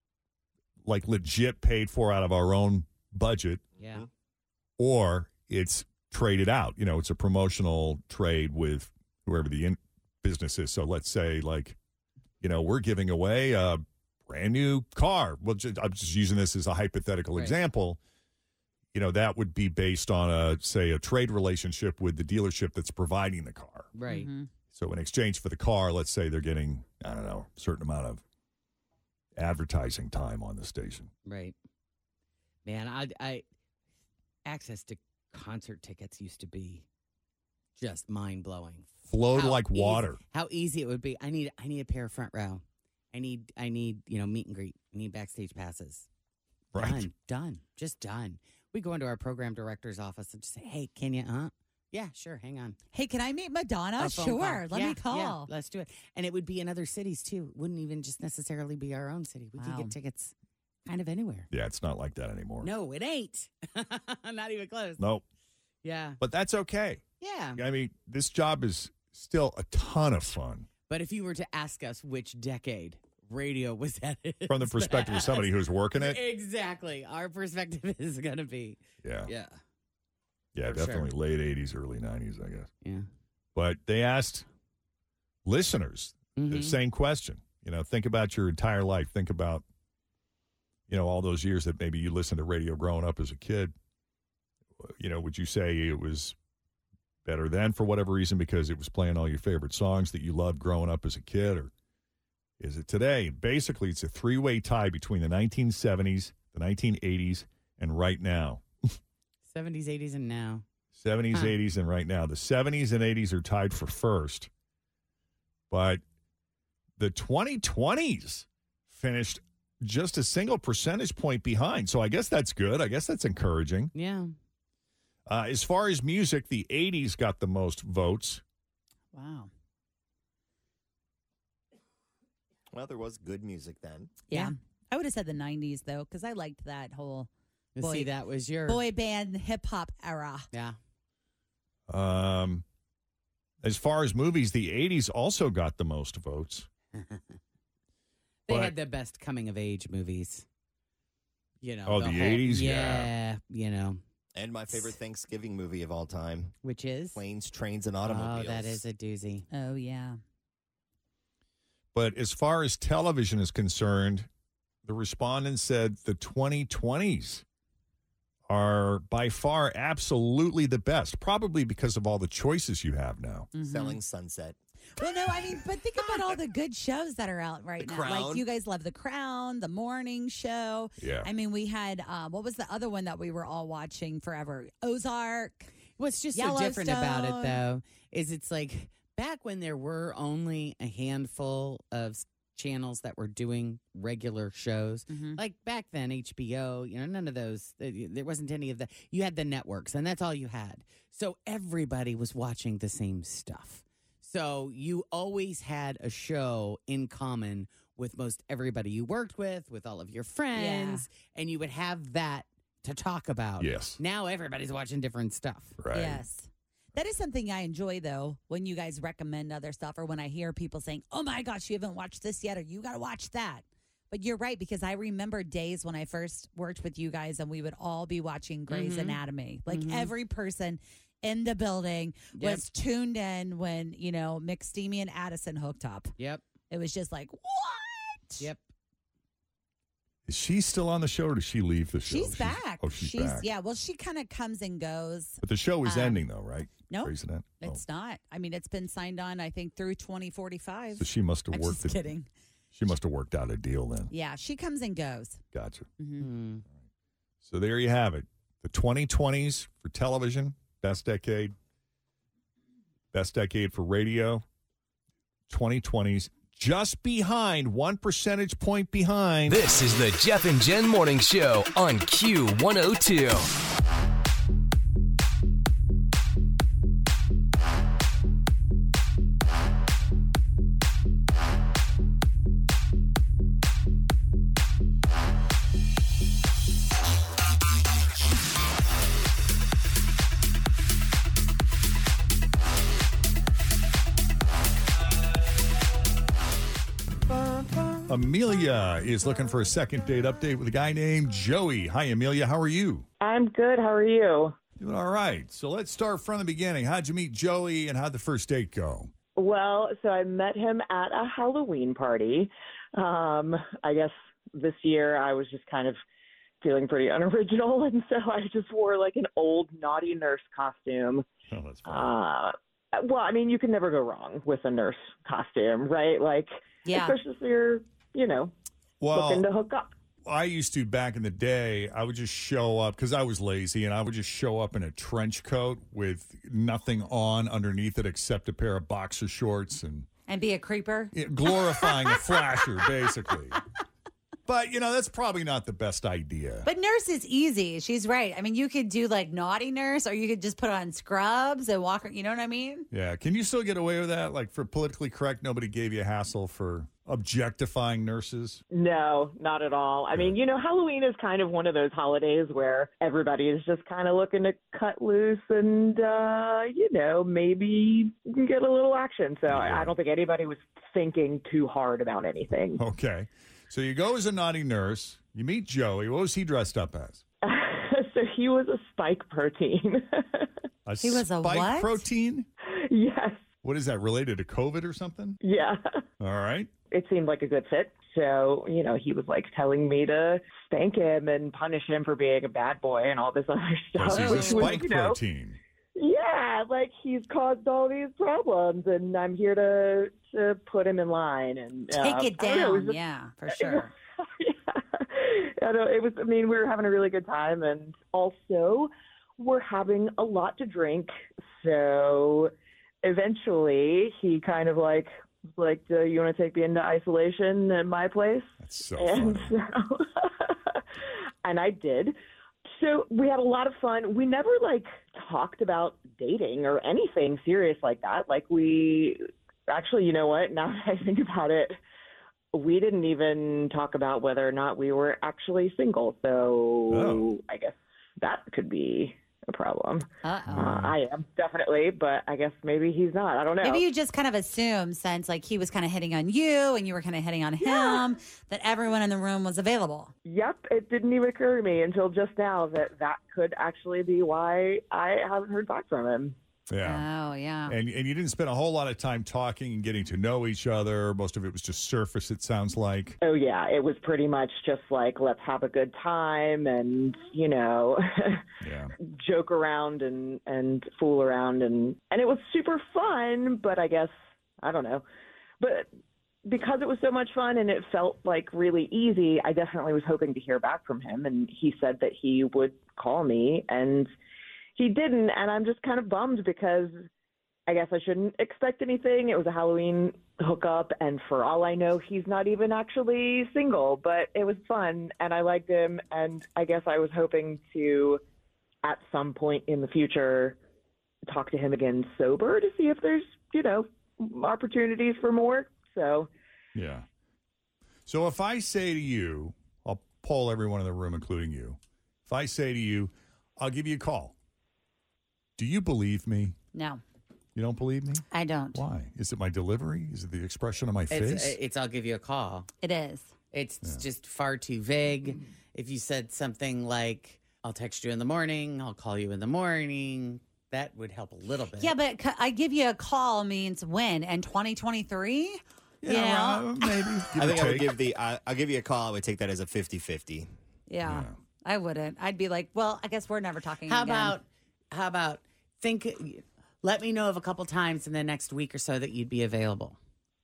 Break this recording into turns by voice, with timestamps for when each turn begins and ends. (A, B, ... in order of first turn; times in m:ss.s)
0:00.8-0:03.7 A
0:03.8-0:04.1 B
0:04.8-0:11.8 A
0:12.4-0:18.0 A
0:18.9-0:23.9 A
0:24.0-0:24.3 B
0:24.1-0:24.5 C
0:24.7-0:28.2 A
0:29.4-0:31.1 A
0:31.3-0:31.6 B
0:32.6-0:33.4 B
0:34.5-0:36.9 B
0:37.8-0:42.6 B
0:39.1-0:40.2 A
0:43.1-0:46.1 B
0:46.7-0:47.0 A
0:46.8-0:52.8 B
0:52.9-0:55.5 C
0:54.0-1:00.3 B
0:59.6-0:59.9 C
1:00.9-1:01.5 B
1:01.5-1:02.7 A
1:02.6-1:05.0 B
1:05.0-1:05.2 A
1:05.8-1:06.2 B
1:06.2-1:07.0 A
1:07.2-1:07.6 B
1:07.6-1:10.7 A
1:10.9-1:19.6 B
1:14.5-1:16.2 A
1:19.0-1:19.3 A
1:20.6-1:22.7 A
1:20.7-1:21.1 B
1:23.6-1:24.5 A
1:25.4-1:29.6 A
1:26.4-1:26.8 B
1:30.9-1:33.7 A
1:34.8-1:36.4 A
1:37.2-1:41.7 A
1:42.6-1:48.6 A
1:49.5-1:50.6 B
1:50.9-1:54.5 A
1:55.7-1:56.0 A
1:57.0-2:03.9 A
2:04.0-2:04.3 B
2:05.3-2:08.4 A
2:09.1-2:09.5 C
2:12.7-2:14.2 D
2:14.3-2:18.1 C
2:17.8-2:18.8 B
2:18.7-2:20.4 C
2:21.9-2:22.6 A
2:23.6-2:26.7 A
2:27.0-2:27.2 B
2:28.5-2:30.4 B
2:28.5-2:28.7 A
2:31.6-2:34.0 B
2:31.9-2:33.1 A
2:34.4-2:36.6 D
2:36.6-2:37.2 B
2:37.2-2:38.8 D
2:38.0-2:39.5 B
2:39.5-2:40.2 C
2:41.9-2:44.3 A
2:44.8-2:47.4 A
2:48.5-2:53.5 A
2:53.5-2:54.0 C
2:53.6-2:54.6 D
2:55.0-3:05.7 C
2:57.8-2:58.5 D
3:01.0-3:01.3 A
3:06.0-3:35.8 B
3:06.3-3:07.6 C
3:15.1-3:15.4 C
3:30.5-3:31.1 C
3:33.6-3:34.0 A
3:35.8-3:36.2 A
3:35.9-3:56.1 C
3:48.7-3:50.1 B
3:52.3-3:52.6 B
3:56.2-3:56.4 B
3:56.7-3:58.5 C
4:00.3-4:03.5 A
4:02.1-4:06.2 C
4:05.4-4:07.8 A
4:06.8-4:12.3 C
4:11.0-4:12.0 A
4:12.7-4:14.1 A
4:14.1-4:15.4 C
4:15.5-4:15.9 A
4:16.0-4:16.3 C
4:16.2-4:16.6 B
4:17.4-4:21.6 A
4:23.1-4:24.4 A
4:25.5-4:29.6 A
4:29.5-4:33.5 E
4:58.1-5:03.1 A
5:03.2-5:04.6 F
5:04.8-5:09.1 A
5:09.4-5:16.0 F
5:16.6-5:21.2 F
5:21.5-5:22.1 A
5:21.9-5:28.5 F
5:26.8-5:27.2 C
5:29.0-5:29.4 A
5:29.1-5:29.9 F
5:30.2-5:40.1 A
5:40.3-5:41.1 C
5:41.1-5:43.6 A
5:41.8-5:42.2 C
5:44.5-5:46.7 A
5:46.6-5:52.9 C
5:52.9-5:58.6 A
5:58.7-6:12.8 F
6:09.5-6:09.9 A
6:12.8-6:17.2 A
6:17.4-6:20.5 F
6:20.9-6:22.5 A
6:21.0-6:22.0 C
6:22.7-6:23.5 F
6:23.6-6:25.4 A
6:25.4-6:25.8 F
6:26.2-6:26.7 A
6:26.9-6:35.2 F
6:34.0-6:35.6 A
6:34.2-6:34.7 C
6:36.0-6:43.0 F
6:41.9-6:43.9 C
6:43.5-6:52.5 F
6:53.0-7:00.8 F
6:58.6-6:59.5 A
7:01.4-7:02.2 F
7:02.7-7:11.8 F
7:12.5-7:23.8 F
7:16.9-7:17.3 A
7:20.2-7:20.8 C
7:20.5-7:20.9 A
7:23.6-7:30.1 C
7:27.6-7:28.0 F
7:30.2-7:36.4 F
7:36.7-7:37.1 A
7:36.8-7:37.8 C
7:37.7-7:43.2 A
7:43.2-7:48.4 F
7:48.6-7:48.9 A
7:49.0-7:55.0 F
7:55.6-7:55.9 F
7:56.4-8:04.1 F
8:04.8-8:07.1 F
8:07.7-8:18.2 F
8:18.8-8:20.6 F
8:21.3-8:26.3 F
8:26.8-8:27.1 A
8:28.1-8:34.4 A
8:35.6-8:36.6 A
8:36.7-8:37.0 C
8:37.6-8:41.6 A
8:38.3-8:38.8 C
8:41.1-8:42.7 B
8:42.8-8:43.3 C
8:43.5-8:52.0 B
8:51.8-8:56.9 C
8:56.0-8:57.9 A
8:57.4-9:00.5 D
9:00.9-9:04.4 C
9:01.0-9:01.3 A
9:03.9-9:10.0 B